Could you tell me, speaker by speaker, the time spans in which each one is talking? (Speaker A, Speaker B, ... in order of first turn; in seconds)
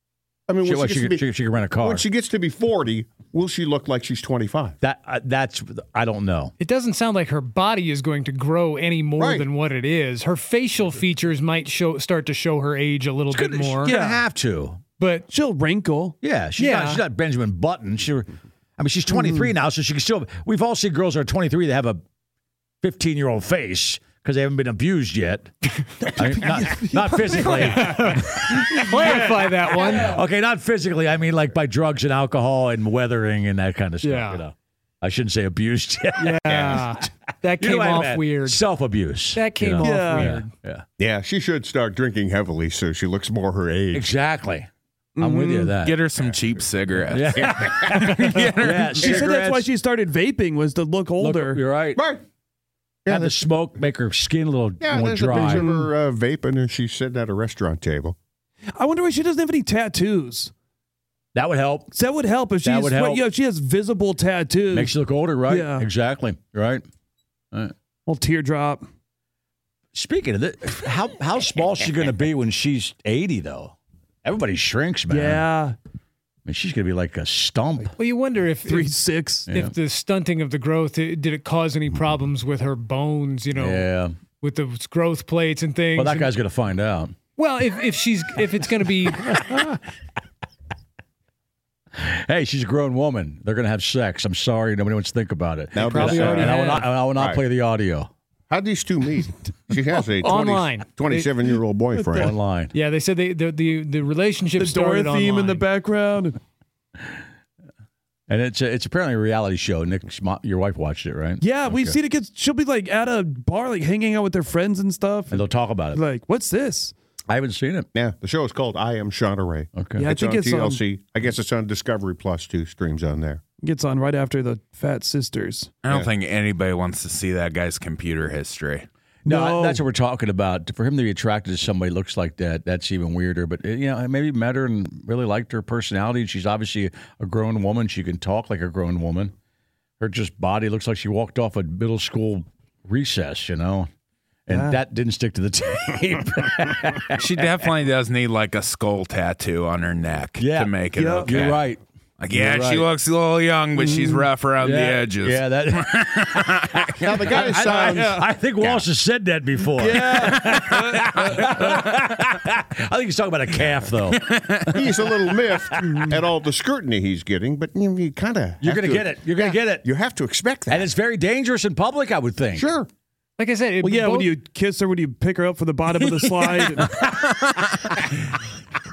Speaker A: 0.5-1.3, 1.8-4.8, 9.2-9.5, 36.5-36.8, 41.0-44.1, 46.2-46.6, 47.3-48.1, 52.0-52.2, 53.0-53.5, 54.8-58.1, 95.7-96.6, 97.1-97.4, 98.5-102.3, 117.9-123.4, 157.0-158.8, 164.7-170.9, 172.6-172.9
Speaker B: 0.6-2.0, 4.8-6.5, 13.3-14.8, 16.2-22.0, 22.8-25.5, 26.1-40.8, 43.9-46.0, 47.1-49.7, 51.2-52.0, 53.1-55.7, 61.3-61.9, 62.6-63.2, 64.7-66.8, 69.9-75.4, 76.5-77.9, 83.5-84.1, 86.0-87.1, 89.2-89.8, 92.0-98.1, 102.1-102.7, 108.3-112.0, 115.3-116.0, 117.3-117.9, 119.7-120.1, 129.2-139.3, 140.0-143.9, 144.4-147.5, 150.4-152.9, 154.6-165.1, 168.6-169.9, 170.7-172.7, 176.8-178.4
Speaker C: 6.6-13.9, 15.0-15.3, 16.6-17.0, 27.4-30.2, 34.0-34.4, 36.2-38.6, 39.3-40.5, 78.0-78.9, 79.5-86.3, 87.3-89.3, 95.8-96.9, 100.2-101.3, 102.7-105.7, 173.4-174.3
Speaker D: 13.8-14.2, 15.3-16.1, 19.1-19.5, 26.0-27.9, 28.9-29.3, 39.8-40.3, 45.2-45.8, 48.7-51.6, 55.3-55.9, 58.8-60.5, 61.9-64.9, 65.5-65.9, 68.1-68.8, 75.1-75.8, 78.6-79.5, 101.9-102.3, 104.6-106.4, 111.4-116.9, 119.9-120.8, 123.6-125.7, 129.2-129.8, 144.5-144.8, 150.9-151.5, 153.8-154.3, 157.6-158.2, 159.7-161.7, 165.8-166.2, 173.8-176.9
Speaker E: 45.8-49.2, 125.8-128.9, 147.2-151.7, 152.2-156.8, 164.1-164.8